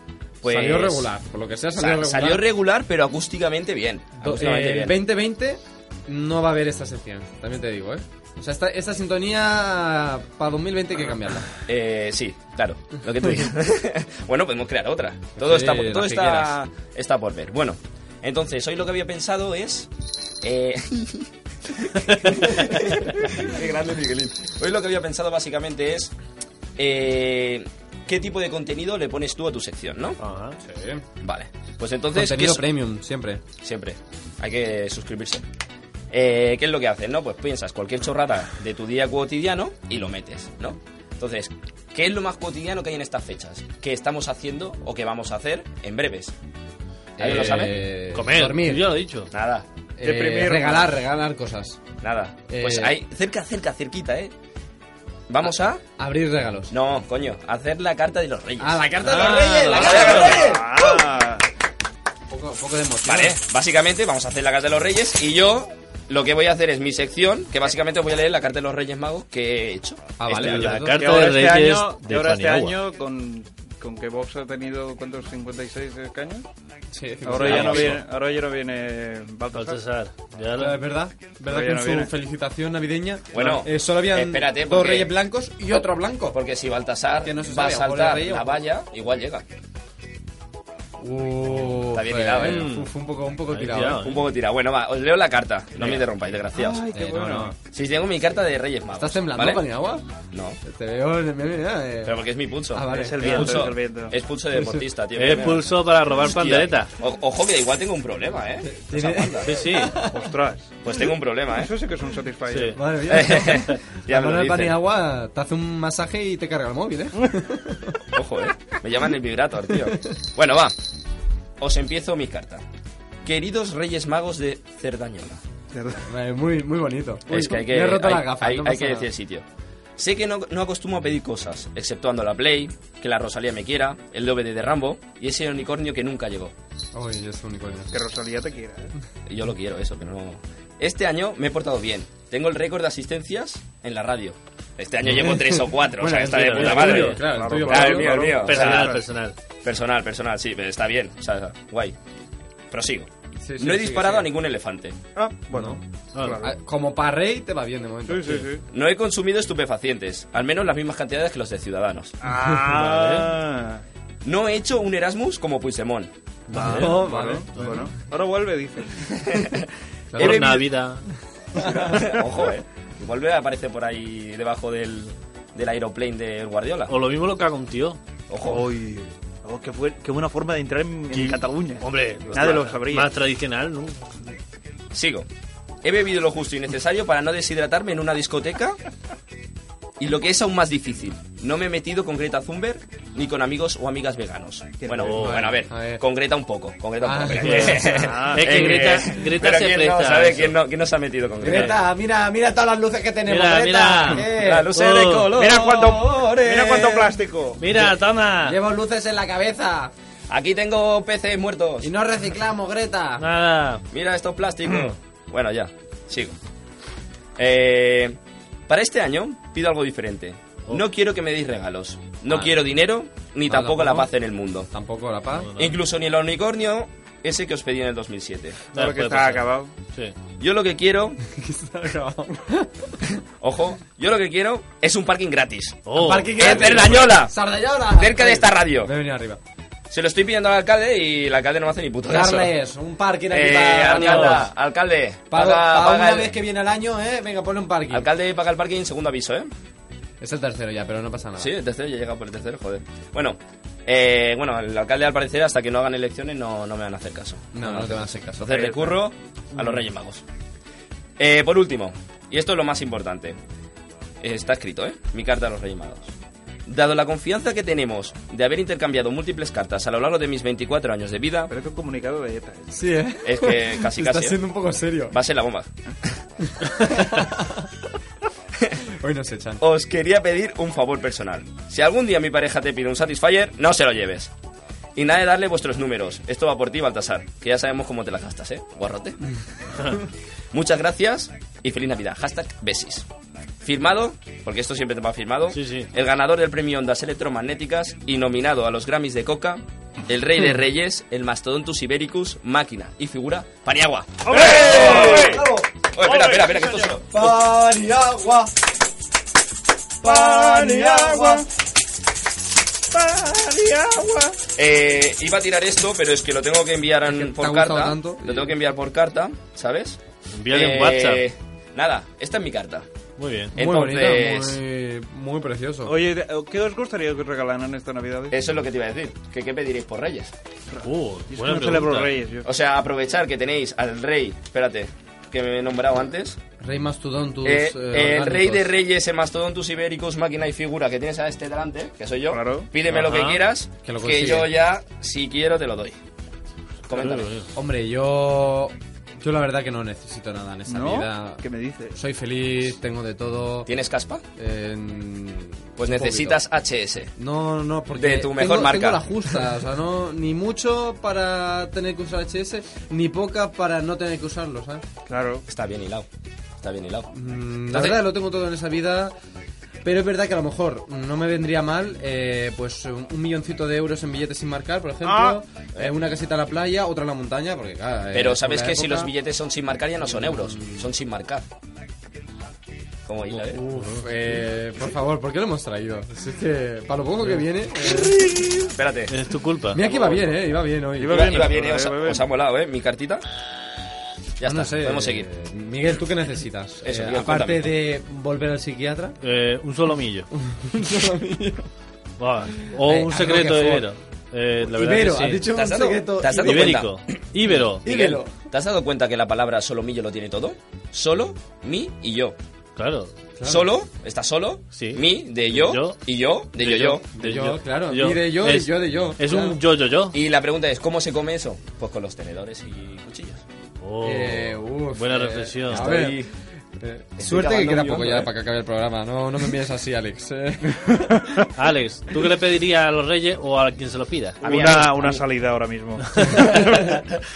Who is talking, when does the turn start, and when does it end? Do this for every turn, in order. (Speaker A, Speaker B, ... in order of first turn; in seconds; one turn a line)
Speaker A: 0.4-1.1
Speaker B: 0.4-2.5
Speaker A: 1.8-5.0
Speaker B: 4.2-11.5
Speaker A: 11.7-19.9
Speaker B: 15.4-16.6
Speaker A: 20.4-26.1
Speaker A: 26.8-30.2
Speaker C: 30.2-30.6
Speaker B: 30.6-31.0
Speaker A: 31.2-32.6
Speaker B: 32.1-33.4
Speaker A: 33.6-35.4
Speaker A: 36.1-46.3
Speaker B: 47.2-48.9
Speaker A: 47.2-47.8
Speaker C: 48.1-49.3
Speaker A: 49.3-49.6
Speaker B: 50.0-51.8
Speaker D: 50.0-50.9
Speaker A: 52.0-54.3
Speaker B: 52.5-52.9
Speaker A: 55.3-55.8
Speaker B: 56.0-56.7
Speaker A: 56.7-58.8
Speaker B: 58.6-61.0
Speaker C: 59.0-60.3
Speaker A: 59.7-60.6
Speaker D: 60.1-61.4
Speaker B: 62.3-63.4
Speaker A: 63.0-70.7
Speaker B: 70.2-70.9
Speaker C: 70.4-72.8
Speaker D: 70.5-76.4
Speaker B: 76.9-78.0
Speaker D: 77.2-79.8
Speaker A: 77.4-78.0
Speaker C: 79.5-80.8
Speaker B: 80.5-86.4
Speaker D: 81.5-82.1
Speaker A: 83.3-85.1
Speaker A: 86.3-89.4
Speaker B: 87.2-88.6
Speaker B: 91.0-94.1
Speaker A: 91.9-92.7
Speaker C: 92.4-92.9
Speaker C: 93.5-94.2
Speaker A: 93.9-96.8
Speaker D: 96.5-97.5
Speaker B: 96.9-97.5
Speaker A: 97.7-99.6
Speaker B: 98.9-100.0
Speaker A: 100.3-100.6
Speaker B: 100.6-103.7
Speaker A: 102.0-109.6
Speaker D: 102.9-104.1
Speaker B: 104.5-104.8
Speaker C: 105.1-106.9
Speaker B: 108.6-110.2
Speaker C: 109.4-110.0
Speaker D: 110.0-112.9
Speaker A: 110.8-111.7
Speaker C: 112.5-112.8
Speaker B: 112.7-118.0
Speaker A: 113.1-114.8
Speaker A: 118.1-120.8
Speaker A: 121.6-122.6
Speaker A: 123.2-125.4
Speaker D: 125.7-126.0
Speaker B: 126.0-129.1
Speaker A: 127.3-129.4
Speaker A: 130.0-136.5
Speaker B: 136.9-137.9
Speaker D: 137.9-138.9
Speaker A: 139.3-149.0
Speaker B: 145.0-148.1
Speaker C: 146.3-147.2
Speaker D: 147.2-149.0
Speaker C: 148.3-149.3
Speaker A: 149.6-151.9
Speaker A: 152.7-155.0
Speaker B: 153.4-154.3
Speaker D: 155.2-156.5
Speaker B: 155.5-155.8
Speaker C: 156.1-156.4
Speaker B: 156.4-158.5
Speaker D: 158.1-158.6
Speaker A: 158.7-162.1
Speaker D: 162.2-163.8
Speaker C: 162.7-163.3
Speaker A: 164.2-166.1
Speaker C: 166.5-167.7
Speaker B: 166.5-167.9
Speaker D: 166.5-169.1
Speaker A: 169.2-170.7
Speaker B: 170.1-170.6
Speaker C: 170.2-171.1
Speaker A: 171.6-176.9
Speaker B: 171.6-172.0
Speaker C: 176.9-178.0
Speaker A: 178.3-178.7
Speaker D: 178.4-183.1
Speaker C: 181.1-184.3
Speaker A: 184.9-185.3
Speaker A: 185.8-188.8
Speaker A: 190.0-201.8
Speaker D: 194.8-195.3
Speaker C: 194.9-195.5
Speaker B: 195.1-196.0
Speaker B: 197.0-198.1
Speaker C: 197.4-200.5
Speaker D: 197.9-198.9
Speaker B: 201.4-204.7
Speaker C: 201.5-201.7
Speaker C: 203.3-205.3
Speaker A: 204.3-206.5
Speaker D: 205.3-207.6
Speaker B: 205.8-207.1
Speaker C: 207.6-208.6
Speaker B: 208.4-209.9
Speaker A: 210.3-211.9
Speaker B: 211.8-213.2
Speaker C: 213.2-213.8
Speaker A: 213.9-216.3
Speaker A: 217.4-224.7
Speaker B: 222.3-222.5
Speaker B: 223.4-224.1
Speaker B: 224.7-225.5
Speaker C: 225.3-225.7
Speaker A: 225.6-228.6
Speaker D: 228.7-229.7
Speaker C: 228.7-230.1
Speaker A: 230.4-231.2
Speaker B: 231.2-233.0
Speaker A: 233.4-235.8
Speaker C: 235.8-236.6
Speaker B: 235.9-239.4
Speaker A: 236.3-237.3
Speaker A: 237.9-238.9
Speaker A: 239.9-242.5
Speaker B: 242.0-244.5
Speaker A: 243.3-246.3
Speaker C: 244.0-244.4
Speaker B: 245.3-248.1
Speaker A: 247.9-249.5
Speaker B: 250.2-251.5
Speaker A: 251.4-260.2
Speaker B: 257.5-259.0
Speaker A: 261.2-263.4
Speaker A: 264.2-266.1
Speaker A: 266.7-271.5
Speaker D: 271.5-272.7
Speaker B: 272.7-275.1
Speaker A: 273.2-274.4
Speaker A: 275.1-276.2
Speaker B: 276.5-277.7
Speaker B: 278.9-279.6
Speaker A: 279.6-284.3
Speaker A: 284.9-289.2
Speaker A: 290.5-293.1
Speaker A: 293.6-307.2
Speaker C: 295.5-295.9
Speaker D: 304.2-305.4
Speaker B: 304.4-305.7
Speaker D: 306.0-307.0
Speaker B: 307.1-308.5
Speaker B: 310.0-311.4
Speaker D: 310.0-311.4
Speaker D: 312.9-314.3
Speaker A: 314.5-320.0
Speaker B: 317.0-318.5
Speaker C: 320.4-321.2
Speaker A: 320.5-322.9
Speaker C: 323.2-323.5
Speaker A: 323.5-324.6
Speaker B: 323.5-325.9
Speaker D: 325.9-328.3
Speaker A: 328.3-330.3
Speaker D: 330.7-332.5
Speaker C: 330.8-332.1
Speaker A: 332.4-336.4
Speaker B: 336.6-338.7
Speaker A: 337.4-346.0
Speaker D: 342.3-342.7
Speaker C: 342.9-343.4
Speaker B: 343.8-344.5
Speaker A: 346.9-347.3
Speaker C: 346.9-347.5
Speaker B: 347.5-351.4
Speaker D: 350.7-351.9
Speaker B: 351.9-353.7
Speaker A: 353.6-354.2
Speaker B: 354.4-356.4
Speaker A: 355.8-357.1
Speaker B: 357.1-364.8
Speaker A: 357.9-359.0
Speaker D: 365.1-365.4
Speaker A: 365.5-366.1
Speaker A: 366.6-367.1
Speaker B: 367.1-369.1
Speaker A: 367.7-368.0
Speaker B: 369.8-379.1
Speaker D: 375.0-375.4
Speaker A: 378.1-381.4
Speaker B: 380.0-380.9
Speaker A: 383.1-383.6
Speaker B: 383.3-388.4
Speaker C: 383.7-384.1
Speaker A: 388.4-389.1
Speaker C: 389.1-389.9
Speaker B: 389.7-391.5
Speaker D: 391.0-392.3
Speaker A: 391.1-393.2
Speaker A: 394.4-395.2
Speaker B: 394.4-399.1
Speaker A: 396.8-397.7
Speaker C: 399.2-400.3
Speaker B: 400.3-401.7
Speaker C: 402.2-405.5
Speaker B: 402.6-403.9
Speaker B: 404.6-406.9
Speaker A: 405.5-407.2
Speaker C: 406.4-407.9
Speaker B: 407.5-408.4
Speaker A: 407.8-412.4
Speaker C: 412.8-413.1
Speaker B: 413.4-413.8
Speaker A: 413.4-417.0
Speaker C: 414.7-416.0
Speaker C: 416.6-420.1
Speaker B: 417.1-419.6
Speaker A: 420.1-423.4
Speaker C: 423.8-425.9
Speaker B: 424.0-426.2
Speaker A: 425.7-426.3
Speaker B: 426.8-431.3
Speaker A: 427.2-428.3
Speaker C: 431.5-434.4
Speaker A: 434.4-435.2
Speaker D: 434.4-437.0
Speaker C: 436.1-436.4